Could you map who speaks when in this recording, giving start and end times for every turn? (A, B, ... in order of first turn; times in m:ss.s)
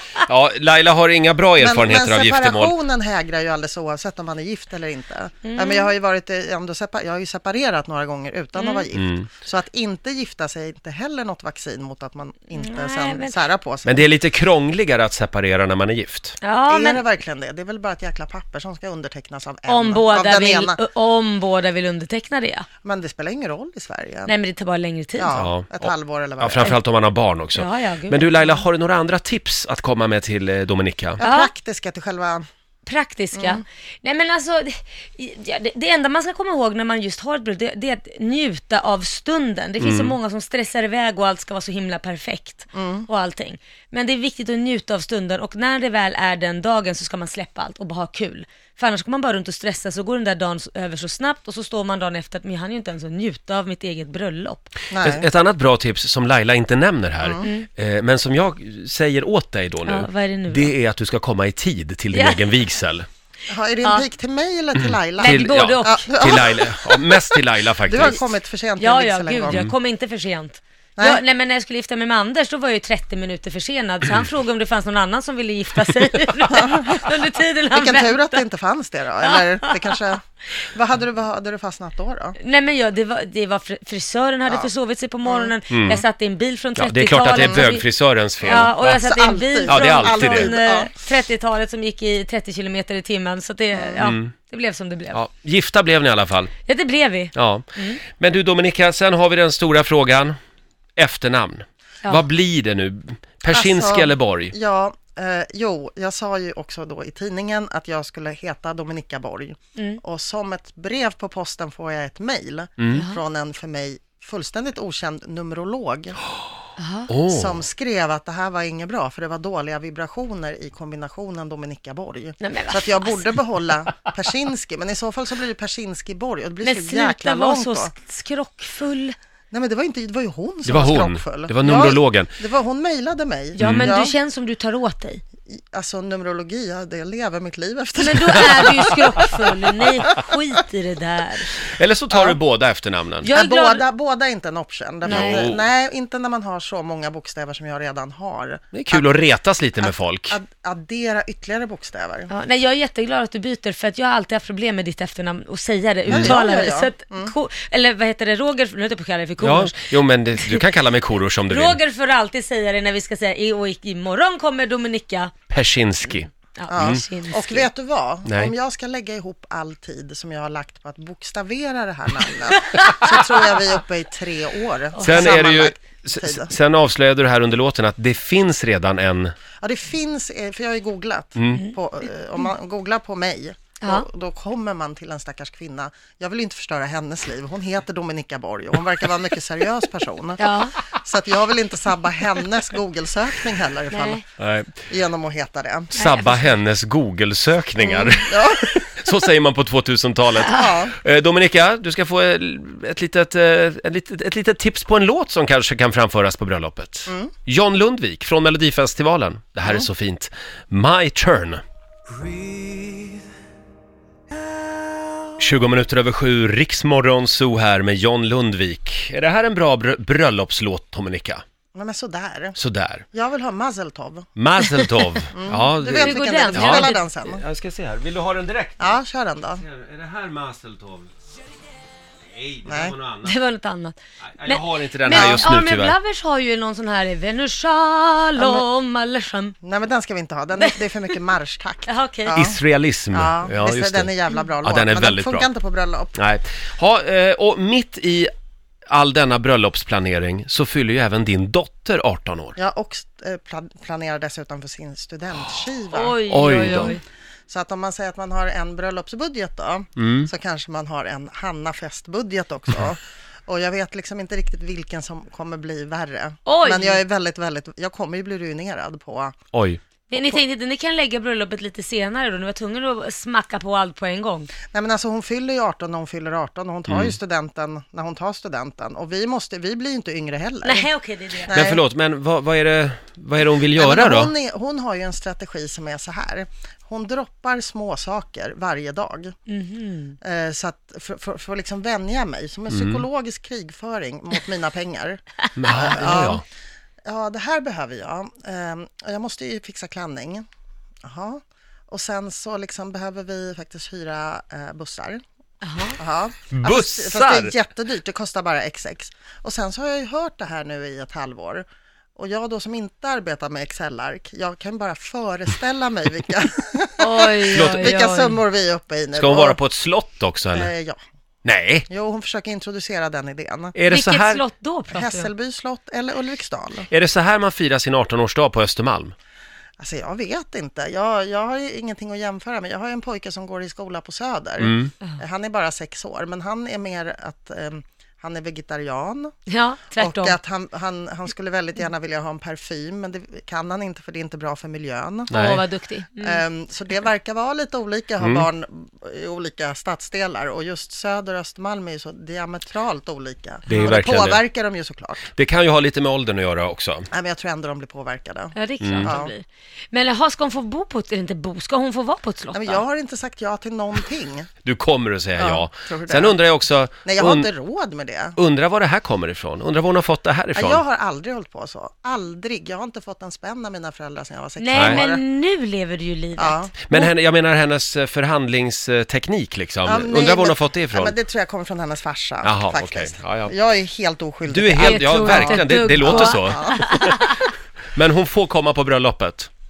0:00.2-0:02.7 A
0:01.6-0:14.1 B
0:05.4-0:05.9 C
0:08.6-0:08.9 C
0:08.9-0:09.3 A
0:12.5-0:13.4 C
0:13.8-0:16.4 A
0:16.4-0:17.0 C
0:16.7-0:20.8 B
0:19.7-0:22.7 C
0:22.8-0:24.3 B
0:24.3-0:25.3 C
0:25.2-0:26.8 B
0:25.3-0:31.2 A
0:27.5-0:28.6 C
0:31.2-0:32.4 B
0:31.2-0:31.5 C
0:32.8-0:54.7 C
0:33.3-0:33.6 B
0:39.8-0:40.1 A
0:42.7-0:43.1 B
0:54.9-0:55.3 B
0:55.0-1:03.1 A
0:57.2-0:57.5 B
0:57.4-0:57.7 C
0:59.8-1:00.7 C
1:02.1-1:02.5 C
1:03.5-1:09.6 B
1:05.2-1:06.4 C
1:05.2-1:08.2 A
1:08.8-1:18.4 C
1:11.0-1:11.2 B
1:16.5-1:17.1 B
1:17.7-1:22.4 B
1:19.2-1:20.0 C
1:22.4-1:27.8 C
1:25.2-1:25.5 B
1:25.7-1:26.0 A
1:26.8-1:29.0 A
1:27.3-1:27.7 B
1:28.4-1:30.9 B
1:28.4-1:35.2 C
1:29.7-1:30.6 A
1:33.7-1:34.0 B
1:34.0-1:34.3 A
1:35.1-1:36.5 A
1:36.6-1:38.0 C
1:37.3-1:40.4 A
1:41.0-1:44.5 A
1:43.5-1:56.2 B
1:52.9-1:53.2 C
1:56.8-1:57.1 C
1:57.1-1:57.6 A
1:57.3-2:07.9 B
2:02.4-2:03.4 C
2:06.6-2:09.1 C
2:09.5-2:14.1 B
2:10.6-2:12.3 A
2:13.5-2:15.2 C
2:13.6-2:13.9 A
2:15.5-2:20.3 B
2:18.0-2:21.6 C
2:21.6-2:23.3 A
2:22.1-2:22.4 B
2:23.2-2:23.8 C
2:23.3-2:29.2 B
2:25.0-2:25.4 C
2:25.1-2:25.6 A
2:28.7-2:30.4 A
2:29.8-2:32.3 B
2:32.3-2:40.6 C
2:36.1-2:36.4 A
2:36.1-2:37.3 B
2:39.4-2:41.8 A
2:41.5-2:45.3 C
2:45.5-2:47.0 A
2:46.6-2:47.7 C
2:46.7-2:56.5 B
2:48.2-2:48.5 A
2:55.0-2:55.4 C
2:55.0-2:59.3 A
2:59.6-3:14.2 B
3:01.4-3:01.6 A
3:10.4-3:10.8 C
3:13.9-3:14.2 C
3:14.4-3:14.7 A
3:14.8-3:16.2 B
3:16.0-3:31.6 A
3:16.0-3:16.5 C
3:17.8-3:18.9 B
3:20.4-3:20.8 C
3:20.4-3:21.0 B
3:27.1-3:27.3 B
3:35.4-3:41.4 A
3:41.7-3:42.6 B
3:42.6-3:43.0 A
3:43.1-3:44.3 B
3:44.4-3:49.0 A
3:45.3-3:47.4 B
3:46.0-3:47.1 C
3:48.8-3:49.6 B
3:49.6-3:51.1 A
3:52.3-3:53.3 A
3:52.6-3:52.9 B
3:53.2-3:59.6 C
3:54.2-3:56.0 A
3:55.1-3:55.5 B
3:58.4-3:58.6 B
3:59.6-4:02.6 B
4:00.6-4:00.8 C
4:01.9-4:02.4 C
4:02.3-4:04.1 A
4:03.1-4:06.2 B
4:04.6-4:05.5 A
4:06.2-4:08.3 A
4:08.9-4:12.6 A
4:12.6-4:17.0 B
4:15.9-4:17.0 C
4:16.3-4:16.9 A
4:17.5-4:29.3 B
4:20.0-4:20.3 A
4:26.4-4:27.0 C
4:29.5-4:29.8 A
4:30.1-4:34.5 C
4:30.1-4:30.4 B
4:34.7-4:40.9 B
4:36.9-4:37.1 A
4:40.6-4:41.5 C
4:41.4-4:41.8 B
4:41.5-4:44.3 A
4:43.7-4:49.3 B
4:49.5-4:50.2 C
4:50.2-4:56.4 B
4:52.7-4:53.0 A
4:55.6-4:56.4 A
4:57.0-5:00.4 B
5:01.0-5:05.2 B
5:05.6-5:06.0 C
5:06.0-5:11.6 B
5:06.5-5:07.5 A
5:12.2-5:19.6 B
5:17.0-5:18.4 C
5:17.5-5:18.0 A
5:19.1-5:20.7 A
5:20.5-5:21.0 B
5:21.4-5:21.8 A
5:21.9-5:23.8 B
5:23.7-5:24.4 A
5:23.9-5:25.3 C
5:24.9-5:26.9 B
5:26.9-5:29.1 A
5:29.8-5:39.3 B
5:34.6-5:34.9 A
5:39.5-5:40.4 C
5:40.0-5:45.4 B
5:45.3-5:45.6 A
5:45.3-5:46.4 C
5:46.2-5:55.3 B
5:48.2-5:48.5 A
5:53.7-5:54.4 A
5:55.3-5:57.1 A
5:57.1-5:59.3 B
5:58.5-6:02.8 C
5:58.8-5:59.1 A
6:02.5-6:04.5 B
6:04.6-6:07.5 A
6:05.4-6:06.4 B
6:07.0-6:08.4 B
6:08.4-6:10.8 A
6:10.5-6:15.2 B
6:14.6-6:17.1 C
6:14.7-6:15.0 A
6:16.4-6:16.7 B
6:16.8-6:21.1 A
6:19.8-6:27.1 B
6:22.4-6:23.5 A
6:24.5-6:27.3 A
6:24.8-6:27.5 C
6:27.9-6:29.5 A